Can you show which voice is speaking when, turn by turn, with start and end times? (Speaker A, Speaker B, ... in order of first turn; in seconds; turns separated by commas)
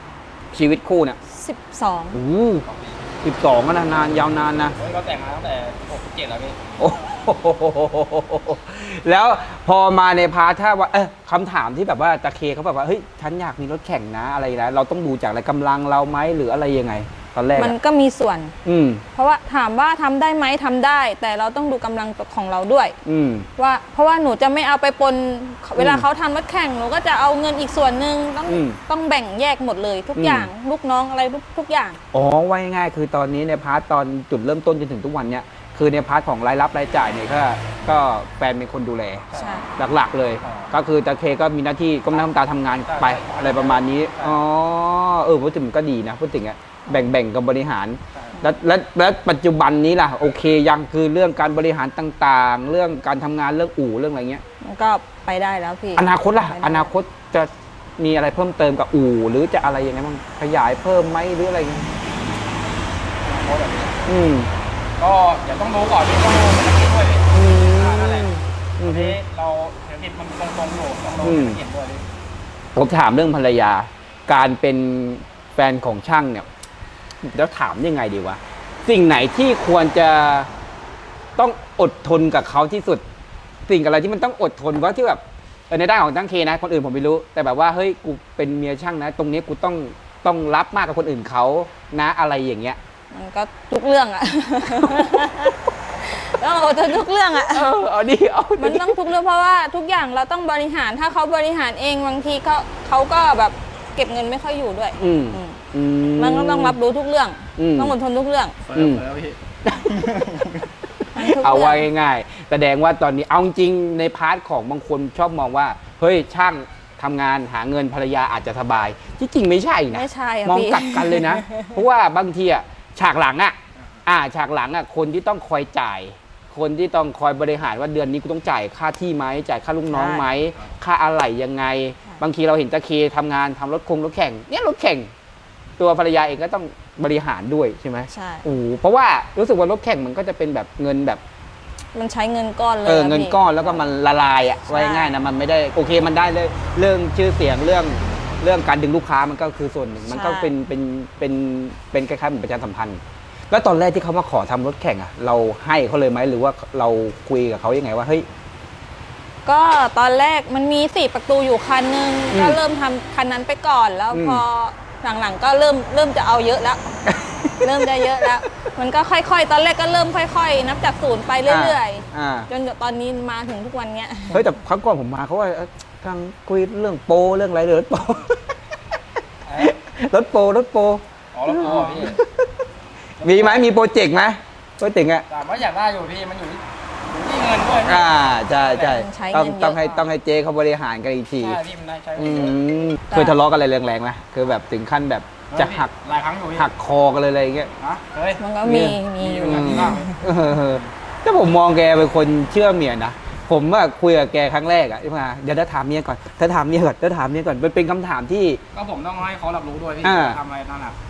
Speaker A: 0.5-1.2, Speaker B: 1.3-2.2, Speaker A: 2.1-2.6, Speaker C: 2.6-3.0, Speaker A: 3.2-4.8, Speaker C: 4.8-6.6, Speaker A: 6.8-17.8, Speaker B: 17.6-18.6, Speaker A: 18.6-19.1, Speaker B: 19.2-23.0, Speaker A: 23.1-23.5, Speaker B: 23.6-32.0, Speaker A: 25.8-26.1, Speaker A: 28.5-28.8, Speaker A: 30.2-30.5, Speaker A: 32.1-54.4, Speaker C: 39.3-39.6, Speaker B: 39.3-39.7, Speaker C: 40.4-40.7, Speaker C: 42.8-44.4, Speaker C: 48.1-48.4, Speaker B: 54.6-56.9, Speaker A: 56.0-62.0, Speaker C: 63.2-64.0, Speaker A: 64.1-64.5, Speaker C: 65.0-72.0, Speaker A: 67.3-69.2, Speaker A: 71.2-71.6, Speaker A: 72.8-76.5, Speaker A: 77.2-80.5, Speaker A: 81.4-83.0, Speaker A: 83.7-92.8, Speaker B: 93.1-97.7, Speaker A: 94.7-95.6, Speaker A: 97.4-99.0, Speaker B: 98.6-105.6, Speaker A: 105.0-106.8, Speaker B: 106.2-108.6, Speaker A: 107.6-108.0, Speaker C: 108.7-109.4, Speaker A: 108.7-109.0, Speaker A: 109.6-135.1, Speaker C: 109.9-110.7, Speaker B: 111.1-111.9, Speaker B: 119.9-121.7, Speaker B: 129.9-130.3, Speaker A: 135.8-141.2, Speaker B: 138.1-138.4, Speaker B: 141.9-143.8, Speaker A: 142.8-158.3, Speaker B: 144.7-145.2, Speaker B: 150.1-150.5, Speaker B: 159.5-167.0, Speaker A: 162.3-162.6, Speaker A: 164.1-164.4, Speaker A: 167.1-168.3, Speaker B: 167.5-174.4, Speaker A: 171.5-172.5, Speaker A: 174.3-178.4, Speaker C: 179.5-179.7, Speaker A: 179.6-182.5, Speaker C: 181.3-182.2, Speaker C: 183.2-183.7, Speaker A: 183.2-185.3, Speaker C: 185.3-188.1, Speaker A: 187.8-191.6, Speaker B: 188.7-190.0, Speaker C: 191.4-192.6, Speaker A: 192.2-195.9, Speaker C: 195.5-196.7, Speaker A: 196.5-197.7, Speaker C: 197.8-198.4, Speaker B: 198.4-200.2, Speaker A: 198.6-208.6, Speaker C: 199.2-200.1, Speaker C: 208.7-211.0, Speaker A: 210.0-210.4